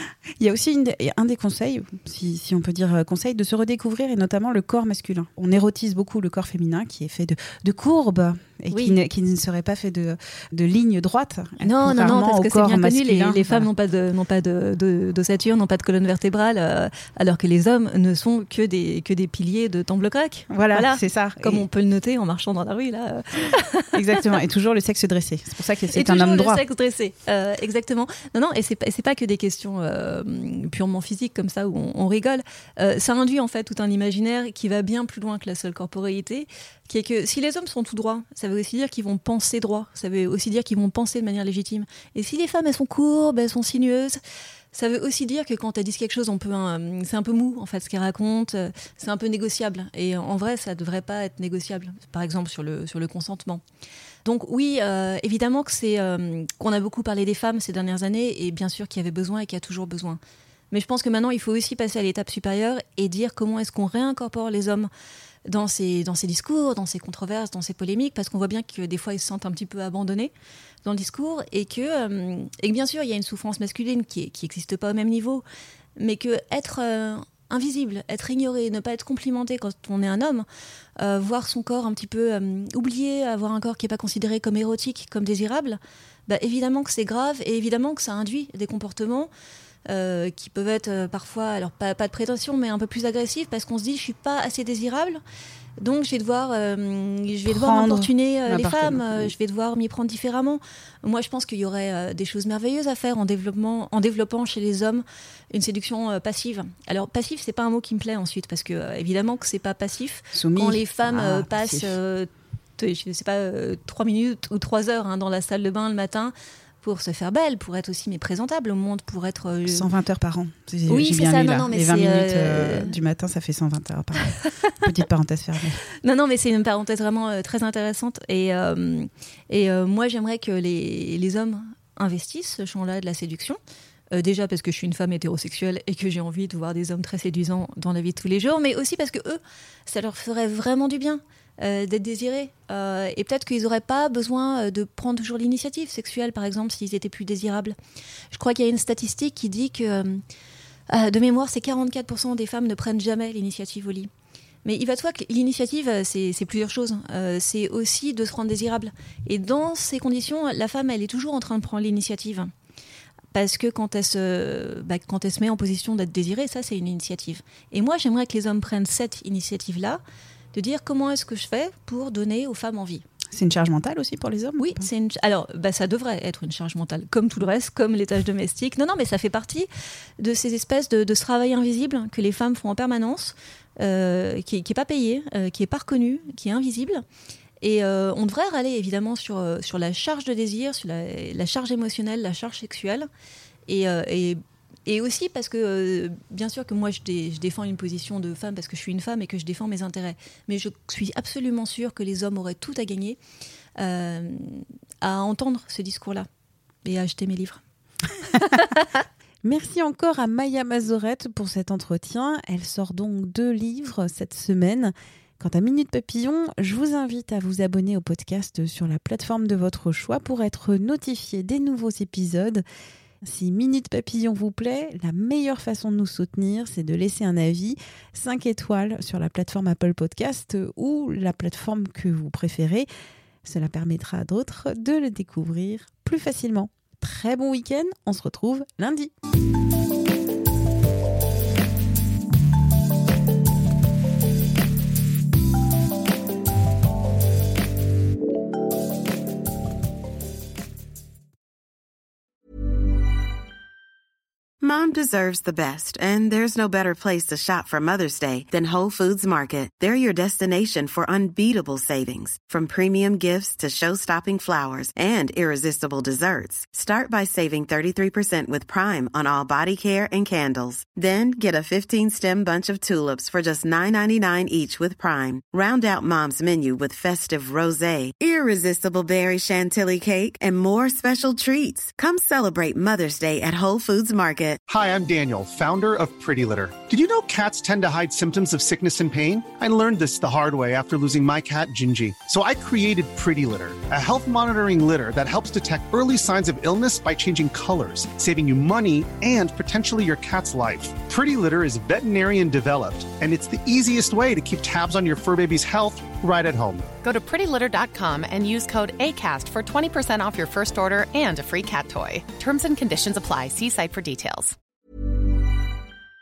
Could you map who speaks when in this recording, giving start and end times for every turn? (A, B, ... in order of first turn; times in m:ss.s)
0:00.4-0:13.7 A
0:08.7-0:09.0 B
0:11.6-0:23.9 B
0:20.5-0:21.7 A
0:23.9-0:26.6 A
0:25.9-0:44.2 B
0:44.7-0:53.6 B
0:54.2-1:00.2 B
1:00.7-1:04.9 B
1:05.5-1:10.3 B
1:10.8-1:15.4 B
1:16.0-1:20.5 B
1:21.0-1:29.3 B
1:29.9-1:35.2 B
1:35.8-1:59.9 B
1:37.5-1:39.3 A
1:50.3-1:52.0 A
1:59.7-2:05.8 A
2:00.9-2:03.0 B
2:06.0-2:13.6 B
2:14.1-2:27.8 B
2:28.3-2:30.2 B
2:30.9-2:34.1 B
2:34.6-2:42.5 B
2:43.3-2:50.0 B
2:50.5-2:53.0 B
2:53.3-2:54.9 A
2:54.6-2:59.7 B
3:00.2-3:07.0 B
3:07.6-3:13.1 B
3:13.7-3:23.2 B
3:23.8-3:26.3 B
3:26.8-3:27.6 B
3:29.4-3:42.6 A
3:43.2-3:52.9 A
3:53.4-3:59.1 A
4:14.6-4:44.6 C
4:44.7-5:06.9 D
5:07.0-5:14.6 E